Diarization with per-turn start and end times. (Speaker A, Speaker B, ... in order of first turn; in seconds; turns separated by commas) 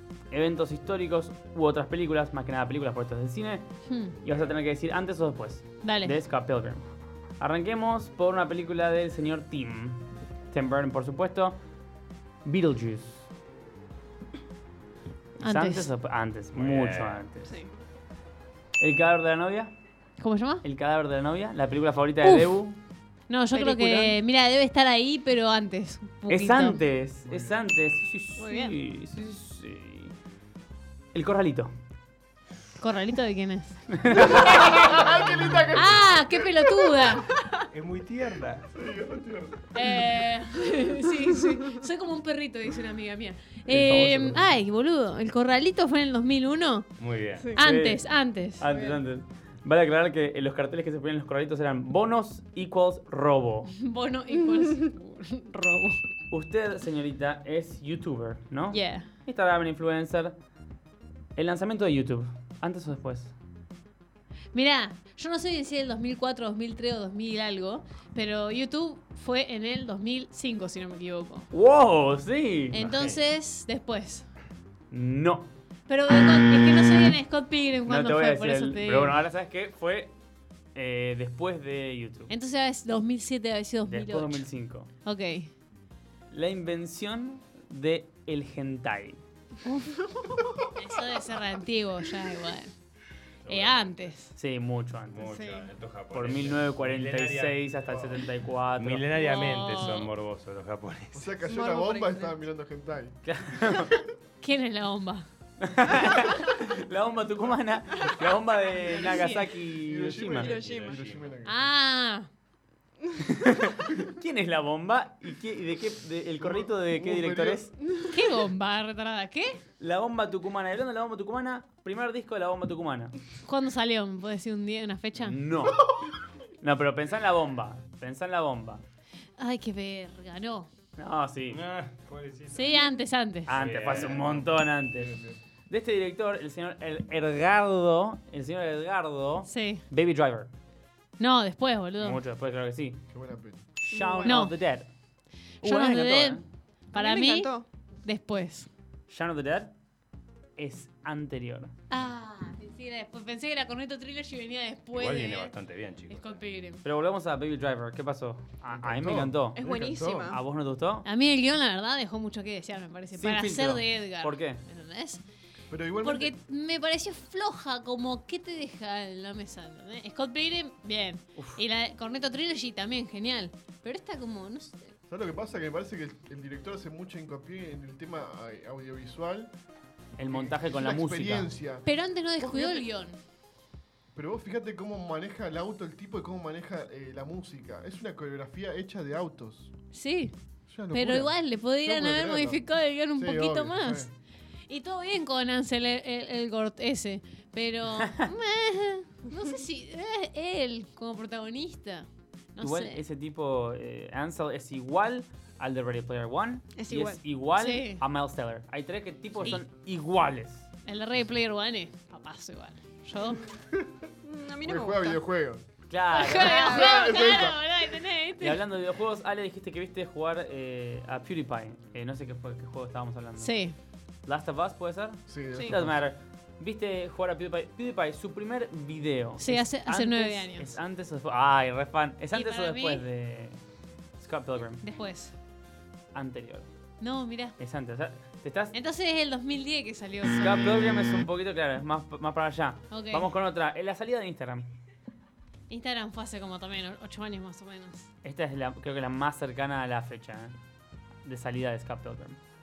Speaker A: 0.3-3.7, Speaker B: 3.9-4.2, Speaker A: 4.2-11.6, Speaker B: 5.8-6.2, Speaker A: 12.4-13.3, Speaker B: 15.4-15.9, Speaker A: 15.4-17.6, Speaker C: 16.5-17.3, Speaker D: 17.4-17.7, Speaker A: 18.8-19.7, Speaker B: 20.2-20.6, Speaker A: 20.6-22.8, Speaker B: 22.2-22.6, Speaker B: 23.3-26.8, Speaker D: 23.5-24.2, Speaker A: 26.3-30.1, Speaker E: 27.2-27.6, Speaker D: 28.4-28.8, Speaker A: 31.1-31.7, Speaker B: 32.8-33.8, Speaker A: 33.9-34.6, Speaker E: 34.1-36.5, Speaker B: 35.7-37.3, Speaker C: 37.7-38.7, Speaker E: 38.7-39.7, Speaker B: 39.7-46.9, Speaker A: 43.7-44.5, Speaker C: 47.0-47.5, Speaker D: 47.3-47.7, Speaker A: 47.5-48.0, Speaker B: 47.5-48.7, Speaker A: 48.6-53.7, Speaker D: 48.6-49.0, Speaker B: 53.7-56.0, Speaker A: 56.3-60.4, Speaker B: 58.7-59.2, Speaker A: 61.4-63.3, Speaker B: 64.5-71.5, Speaker A: 71.5-72.8, Speaker B: 72.7-74.3, Speaker C: 72.8-73.2, Speaker A: 74.9-75.5, Speaker B: 75.9-79.2, Speaker A: 77.9-80.1, Speaker A: 80.8-82.3, Speaker B: 82.3-84.5, Speaker A: 83.9-84.9, Speaker B: 85.0-85.5, Speaker A: 86.3-89.2, Speaker B: 89.6-90.0, Speaker B: 90.8-92.7, Speaker C: 93.4-94.0, Speaker B: 93.5-94.3, Speaker A: 94.4-95.2, Speaker C: 95.1-97.6, Speaker D: 95.2-95.7, Speaker A: 96.1-99.1, Speaker E: 97.9-98.2, Speaker C: 98.8-101.3, Speaker B: 99.2-100.1, Speaker E: 101.1-103.9, Speaker D: 101.4-102.5, Speaker A: 103.2-104.0, Speaker B: 104.4-105.3, Speaker A: 105.6-110.5, Speaker D: 108.1-109.5, Speaker B: 108.8-109.3, Speaker E: 109.7-111.6, Speaker D: 110.3-111.1, Speaker C: 110.4-111.4, Speaker B: 111.4-112.3, Speaker A: 113.3-117.7, Speaker E: 116.4-117.7, Speaker B: 118.1-119.6, Speaker A: 119.8-123.2, Speaker B: 123.4-125.4, Speaker A: 125.2-126.0, Speaker A: 126.6-128.8, Speaker B: 129.4-130.7, Speaker A: 131.0-131.6, Speaker C: 131.5-132.8, Speaker B: 132.5-133.5, Speaker C: 133.5-134.5, Speaker A: 133.5-135.1, Speaker E: 133.8-135.4, Speaker A: 135.7-140.5, Speaker B: 139.4-139.8, Speaker B: 141.2-142.2, Speaker A: 142.0-143.0, Speaker E: 143.1-143.6, Speaker A: 143.8-144.9, Speaker D: 143.9-144.5, Speaker B: 144.2-144.6, Speaker A: 145.6-146.4, Speaker B: 145.6-148.7, Speaker D: 146.9-147.7, Speaker A: 149.1-149.7, Speaker A: 150.6-151.7, Speaker B: 151.9-155.6, Speaker C: 154.9-156.4, Speaker B: 156.1-156.8, Speaker A: 156.8-159.7, Speaker E: 158.7-160.3, Speaker D: 159.5-160.4, Speaker A: 160.3-161.1, Speaker B: 161.0-165.2, Speaker A: 163.1-164.6, Speaker E: 165.7-166.3, Speaker B: 166.0-174.9, Speaker A: 171.3-171.6, Speaker E: 175.1-179.5, Speaker A: 180.2-181.5, Speaker E: 180.3-181.8, Speaker B: 181.8-183.2, Speaker A: 182.4-182.8, Speaker E: 184.2-189.7, Speaker B: 189.9-190.3, Speaker E: 190.7-192.6, Speaker B: 190.9-194.1, Speaker E: 193.1-194.1, Speaker B: 194.7-203.0, Speaker A: 202.6-210.7, Speaker D: 206.8-207.2, Speaker B: 207.5-208.0, Speaker B: 210.8-213.4, Speaker E: 213.6-214.0, Speaker D: 214.2-215.2, Speaker E: 214.6-215.6, Speaker A: 215.9-217.3, Speaker B: 216.1-218.7, Speaker D: 216.3-217.2, Speaker E: 216.6-217.6, Speaker A: 218.4-223.6, Speaker B: 223.4-223.8, Speaker A: 224.2-233.6, Speaker E: 225.3-226.0, Speaker B: 229.4-230.7, Speaker B: 232.3-233.0, Speaker A: 234.2-234.8, Speaker B: 234.8-235.3, Speaker A: 236.1-236.7, Speaker B: 237.0-237.6, Speaker A: 237.6-238.8, Speaker B: 238.7-240.9, Speaker A: 240.2-244.7, Speaker B: 242.9-243.3, Speaker B: 245.7-248.1, Speaker A: 248.2-250.6, Speaker A: 251.2-252.4